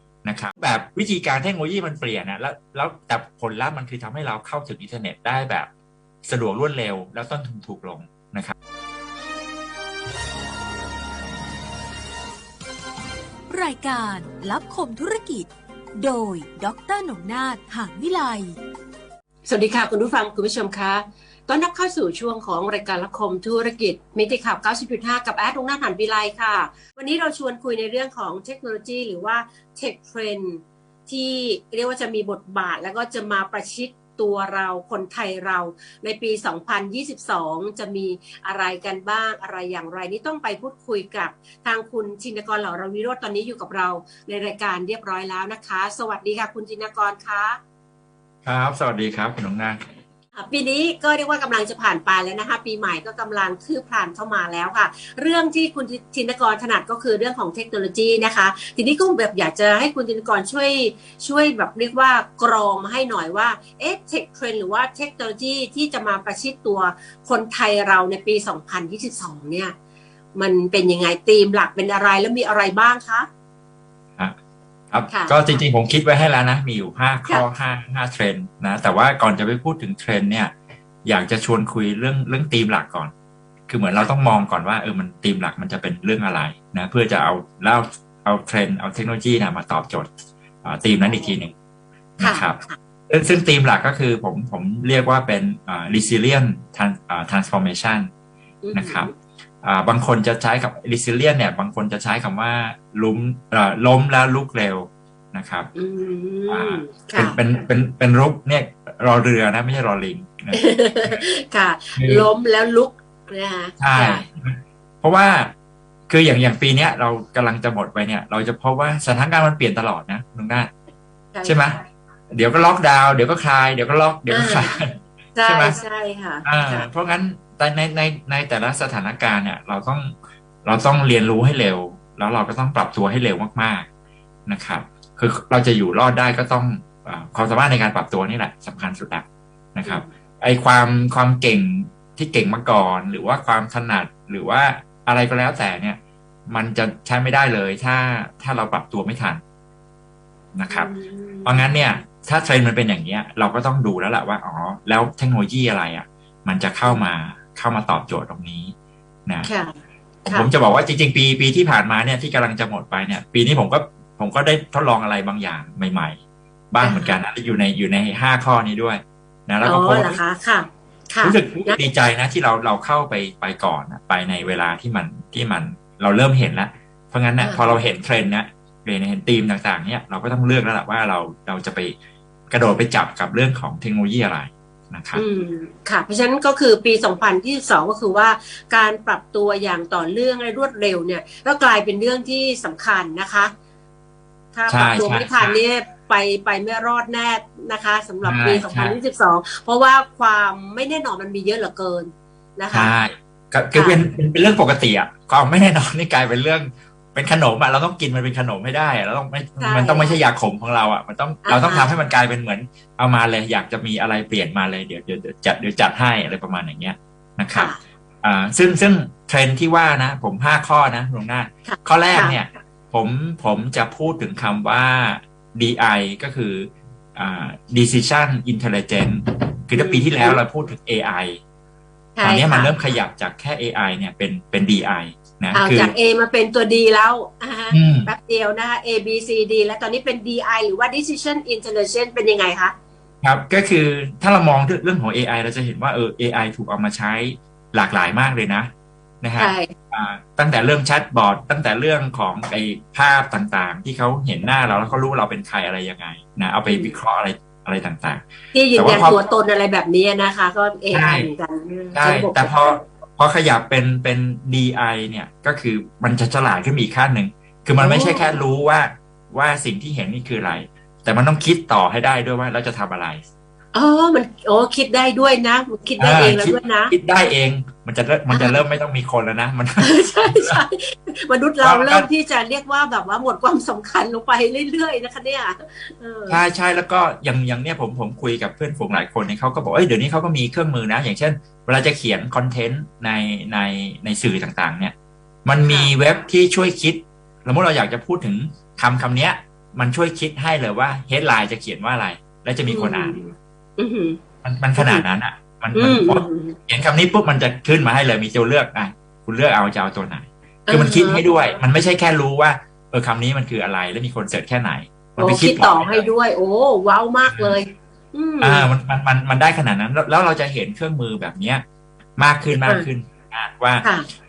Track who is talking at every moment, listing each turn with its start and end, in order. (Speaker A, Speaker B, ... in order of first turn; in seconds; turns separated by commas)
Speaker A: 0.2-5.7, Speaker A: 6.2-8.6, Speaker B: 13.5-18.6, Speaker C: 19.5-47.6, Speaker A: 48.5-49.9, Speaker C: 50.4-69.7, Speaker C: 70.3-73.3, Speaker A: 74.9-80.5, Speaker C: 75.1-75.4, Speaker A: 81.0-83.1, Speaker A: 83.7-90.1, Speaker A: 90.6-91.5, Speaker C: 90.9-91.3, Speaker A: 92.2-98.1, Speaker C: 92.2-92.8, Speaker C: 98.6-99.1, Speaker A: 98.7-99.1, Speaker A: 99.6-105.7, Speaker C: 105.8-107.4, Speaker A: 106.5-111.2, Speaker C: 110.5-114.2, Speaker A: 112.0-112.3, Speaker A: 113.8-115.5, Speaker A: 116.1-120.7, Speaker A: 121.4-121.8, Speaker A: 122.3-124.9, Speaker C: 124.3-124.7, Speaker C: 125.3-126.9, Speaker A: 125.5-125.8, Speaker A: 126.5-133.9, Speaker A: 134.5-149.4, Speaker A: 150.6-150.9, Speaker C: 150.7-151.8, Speaker A: 151.4-158.7, Speaker C: 159.4-159.8, Speaker A: 160.2-166.2, Speaker A: 166.7-170.2, Speaker C: 166.8-167.2, Speaker C: 169.6-171.8, Speaker A: 171.2-181.9, Speaker C: 177.4-177.8, Speaker A: 182.5-185.2, Speaker C: 185.2-193.5, Speaker C: 194.5-202.9, Speaker A: 194.7-195.6, Speaker A: 198.2-199.0, Speaker A: 202.7-231.4, Speaker C: 209.6-210.2, Speaker C: 211.4-211.9, Speaker C: 217.6-217.8, Speaker C: 221.7-222.4, Speaker C: 229.8-230.4, Speaker C: 232.2-232.7, Speaker A: 232.2-235.9, Speaker C: 235.5-242.7, Speaker A: 237.7-238.1, Speaker A: 243.2-248.7, Speaker A: 249.2-258.2, Speaker C: 249.4-249.7, Speaker C: 256.7-257.0, Speaker C: 258.5-262.5, Speaker A: 258.8-259.2, Speaker A: 260.9-261.3, Speaker A: 261.9-273.2, Speaker C: 267.8-268.4, Speaker C: 273.7-276.9, Speaker A: 276.0-280.6, Speaker C: 278.3-278.6, Speaker C: 279.8-286.4, Speaker A: 281.6-282.1, Speaker A: 286.3-294.9, Speaker A: 295.4-303.2, Speaker C: 302.7-304.2, Speaker A: 304.4-316.1, Speaker C: 304.8-305.1, Speaker C: 305.8-306.6, Speaker C: 310.7-311.2, Speaker C: 315.2-318.7, Speaker A: 317.3-317.6, Speaker A: 318.4-321.6, Speaker A: 322.2-323.9